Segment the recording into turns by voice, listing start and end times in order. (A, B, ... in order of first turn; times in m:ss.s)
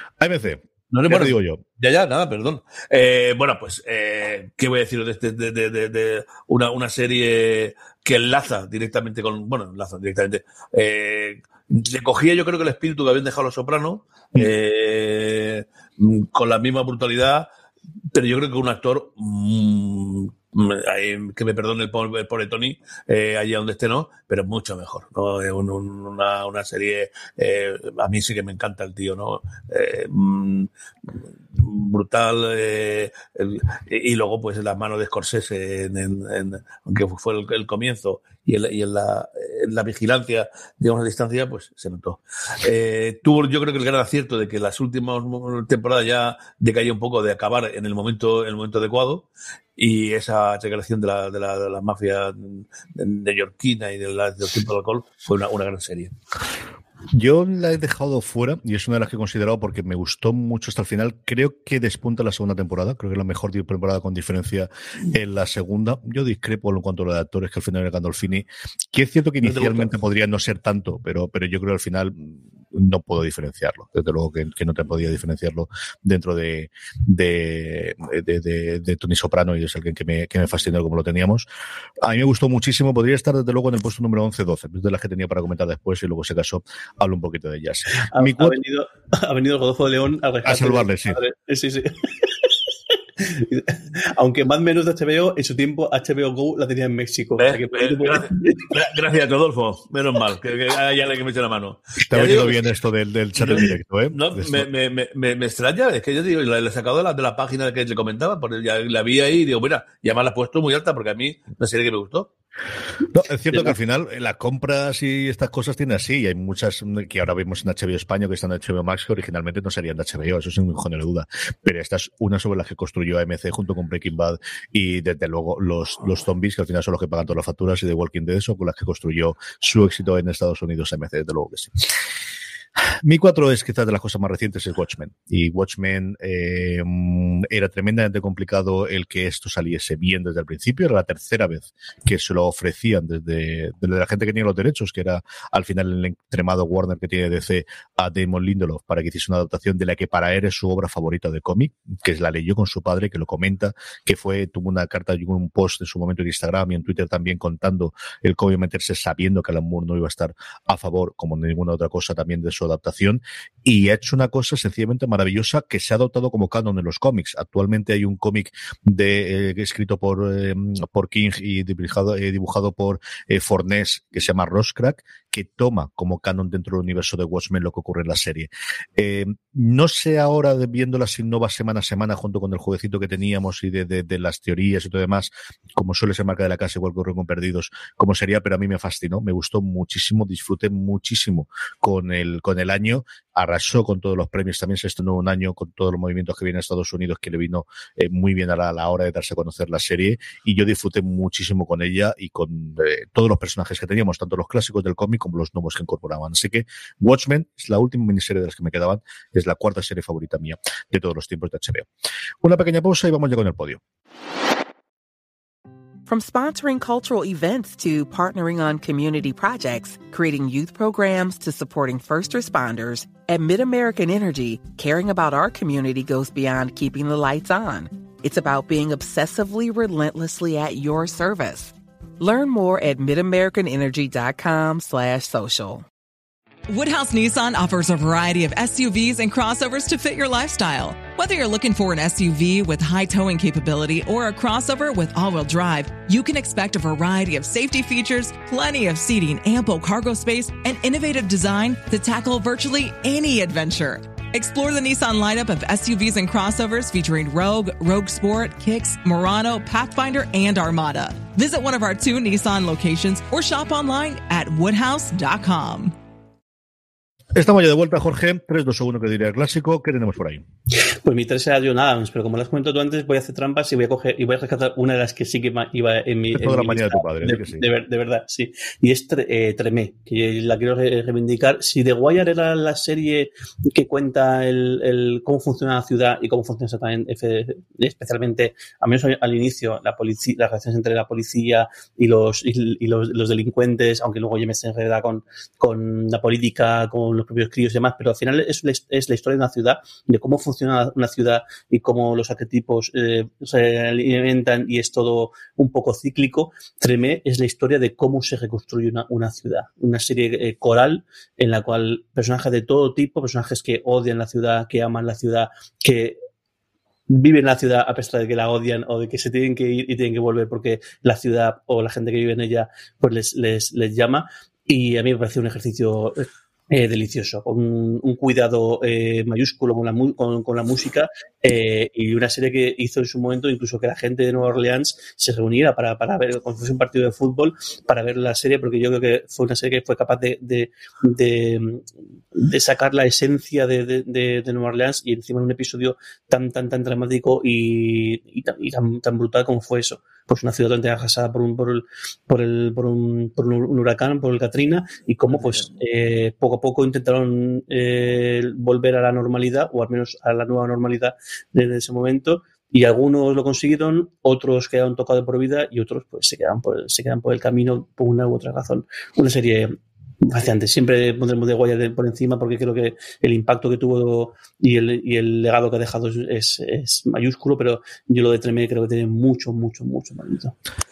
0:00.2-0:01.6 A
0:00.9-0:17.5 B
0:18.1-0:30.7 B
0:31.6-0:56.1 B
0:57.1-1:21.5 A
1:09.4-1:09.9 B
1:22.0-1:28.6 A
1:28.1-1:32.5 C
1:30.4-1:31.2 A
1:33.2-1:38.7 C
1:37.4-1:42.7 B
1:42.1-1:44.7 A
1:43.4-1:52.3 B
1:53.1-2:11.9 A
2:13.0-3:31.9 A
3:32.4-3:33.8 A
3:36.1-3:55.8 D
3:56.7-4:26.0 E
4:27.4-4:30.4 A
4:31.0-5:16.2 C
4:36.3-4:37.6 A
5:17.1-5:41.8 C
5:42.4-6:20.6 C